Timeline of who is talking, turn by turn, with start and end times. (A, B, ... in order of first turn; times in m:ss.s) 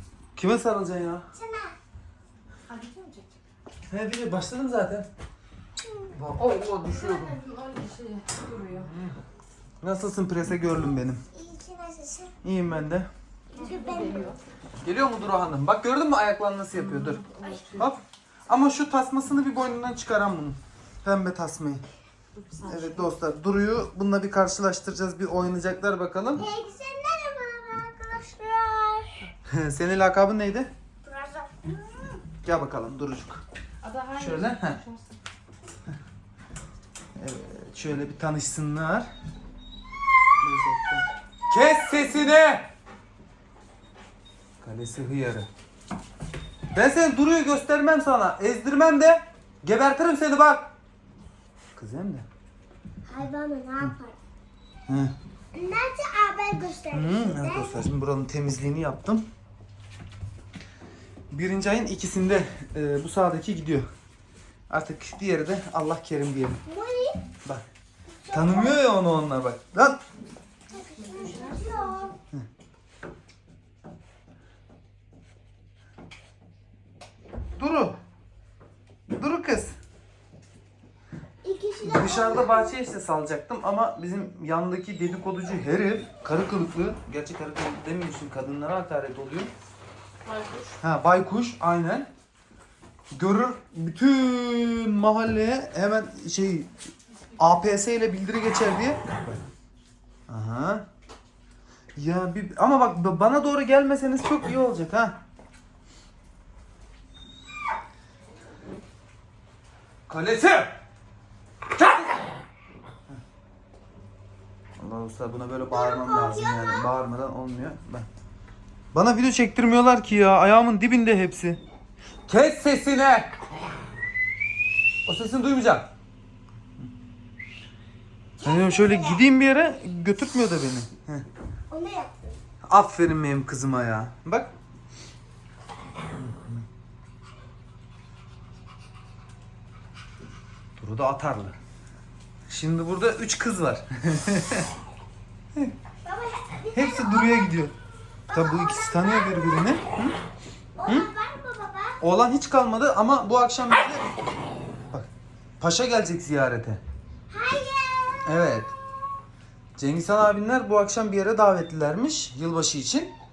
0:00.4-0:01.3 A
0:01.3-0:01.7 B
0:02.7-0:03.3 C
0:03.9-0:05.1 A
0:05.8-0:06.2 B
0:06.1-0:07.4 A
0:06.4-0:08.9 C
0:08.7-0:09.2 A
0:09.8-0:11.2 A
0:10.7-0:12.3 B
0:12.4-0:13.1 A
0:13.5-0:14.4 B
0:13.6-0:14.4 C
0:14.8-0:21.8 A
0:17.3-0:17.8 C
0:22.4-0:23.0 C
0:22.6-0:26.4 A
0:26.3-0:29.3 B
0:29.4-0:30.7 A
0:31.0-0:32.2 B
0:32.4-0:33.4 A
0:33.8-0:35.1 C
0:34.2-0:34.8 A
0:37.2-0:39.0 A
0:40.4-0:42.7 A
0:44.6-0:45.5 A
0:46.7-0:50.7 A
0:51.8-0:52.2 A
0:53.0-0:54.2 B
0:54.9-0:55.1 A
0:55.5-0:57.9 B
0:56.9-0:59.2 A
1:01.3-1:03.8 A
1:04.7-1:06.6 A
1:06.6-1:07.2 B
1:08.2-1:08.8 B
1:08.3-1:10.0 A
1:10.7-1:12.2 B
1:11.0-1:12.0 C
1:17.6-1:18.0 A
1:19.1-1:19.7 A
1:21.4-1:22.8 B
1:21.8-1:29.5 A
1:30.2-1:30.7 C
1:30.8-1:32.1 A
1:33.1-1:36.7 A
1:37.4-1:39.4 A
1:40.3-1:40.8 A
1:42.0-1:45.2 A
1:50.1-1:50.7 A
1:54.8-1:58.1 A
1:55.7-1:56.9 B
1:58.9-2:01.6 A
2:02.3-2:03.3 A
2:05.0-2:05.9 A
2:08.4-2:09.2 B
2:08.4-2:11.2 A
2:11.7-2:12.4 B
2:12.6-2:14.5 A
2:16.1-2:16.5 A
2:20.8-2:21.6 A
2:22.5-2:24.7 A
2:26.0-2:27.5 B
2:26.7-2:27.7 A
2:28.3-2:29.8 B
2:28.3-2:30.2 A
2:30.8-2:32.0 B
2:32.0-2:34.1 A
2:35.6-2:36.8 A
2:37.3-2:38.4 B
2:38.2-2:38.7 A
2:39.8-2:43.1 A